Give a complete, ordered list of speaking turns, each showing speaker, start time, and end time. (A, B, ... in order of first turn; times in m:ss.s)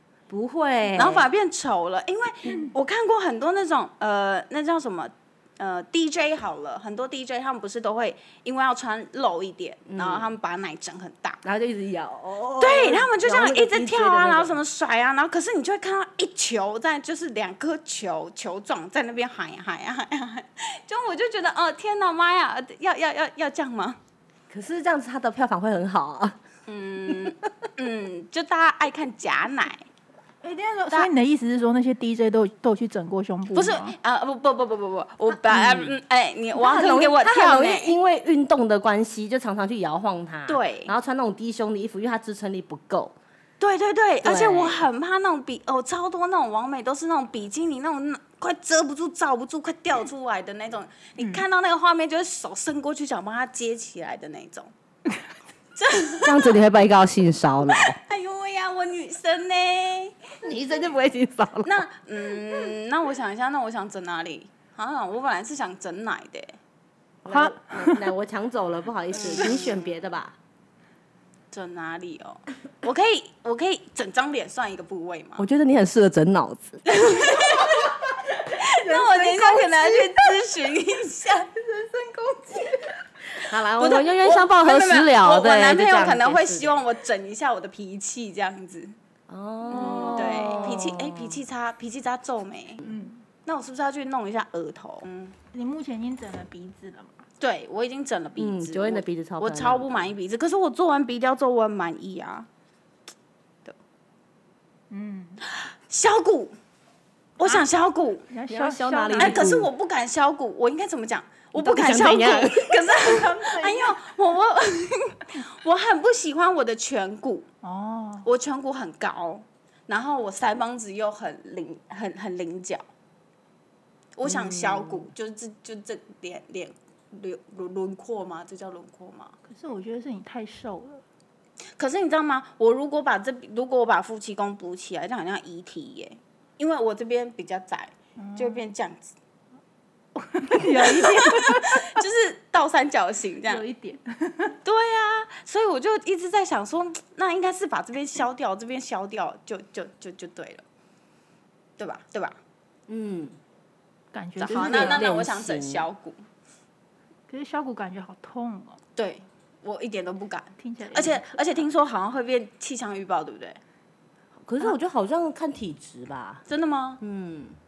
0:00.3-0:01.3 A
0:00.9-0:11.4 B
0:09.9-0:10.3 A
0:11.4-0:14.6 A
0:12.6-0:24.0 B
0:24.5-0:26.4 A
0:26.7-0:29.8 B
0:27.0-0:27.3 A
0:30.4-0:33.9 C
0:33.5-0:37.9 B
0:35.5-0:35.9 A
0:36.5-0:43.1 A
0:40.5-0:40.9 B
0:43.6-0:54.7 B
0:44.2-0:44.8 A
0:55.8-0:56.6 B
0:56.2-0:58.0 A
0:57.8-1:00.2 B
1:00.4-1:01.8 A
1:01.6-1:06.6 B
1:07.2-1:10.3 A
1:07.3-1:08.1 C
1:09.1-1:09.9 B
1:11.5-1:15.4 B
1:15.4-1:16.8 A
1:16.8-1:21.5 B
1:18.3-1:20.4 C
1:21.5-1:23.0 C
1:23.4-1:26.8 A
1:23.8-1:28.9 B
1:29.3-1:31.4 A
1:29.7-1:32.8 B
1:29.8-1:30.6 C
1:32.8-1:33.2 C
1:33.4-1:35.3 B
1:35.5-1:37.2 C
1:37.4-1:42.5 B
1:38.4-1:40.0 A
1:44.9-1:45.4 C
1:45.5-1:46.5 B
1:47.4-1:48.3 B
1:48.3-1:49.5 C
1:48.5-1:49.7 A
1:49.2-1:57.4 B
1:51.6-1:52.8 A
1:52.8-1:54.0 C
1:57.6-1:58.3 C
1:58.2-2:02.8 B
2:04.2-2:09.3 B
2:04.2-2:05.0 A
2:09.5-2:11.0 C
2:11.8-2:19.1 B
2:18.2-2:18.6 C
2:20.2-2:22.0 C
2:20.6-2:23.6 B
2:23.4-2:24.6 C
2:24.6-2:30.6 B
2:31.8-2:32.4 B
2:32.9-2:33.4 A
2:34.1-2:35.0 C
2:34.4-2:36.2 B
2:34.5-2:35.8 A
2:37.3-2:38.8 C
2:39.0-2:43.6 B
2:40.6-2:41.4 C
2:44.4-2:46.4 A
2:46.5-2:47.0 B
2:47.0-2:47.6 A